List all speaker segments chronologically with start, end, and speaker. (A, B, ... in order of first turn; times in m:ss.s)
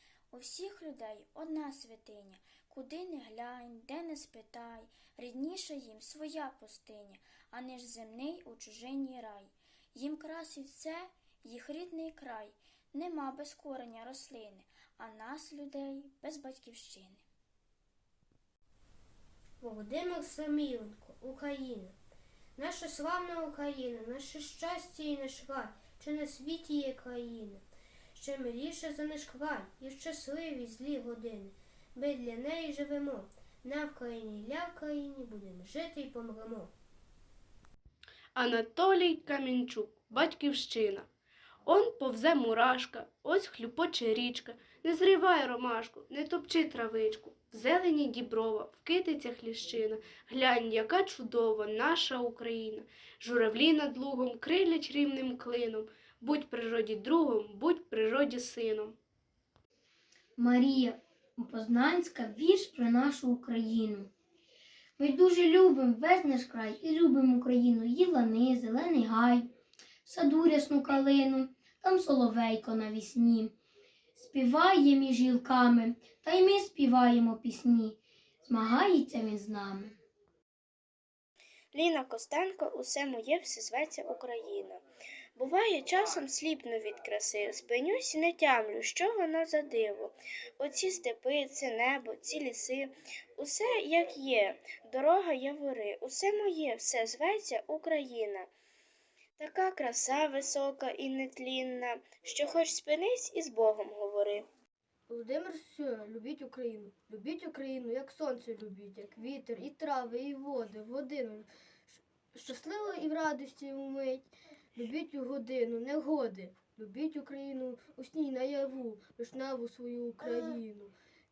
0:00.3-0:17.2 A
0:19.6-0:21.9 B
0:22.6-0:27.6 B
0:28.2-0:36.7 B
0:38.4-0:41.1 C
0:41.7-0:59.0 C
1:00.4-1:04.1 D
1:05.0-1:09.5 D
1:10.0-1:13.5 D
1:14.2-1:20.0 D
1:21.7-1:24.8 E
1:25.4-1:38.5 E
1:39.4-1:44.5 E
1:45.1-2:00.9 F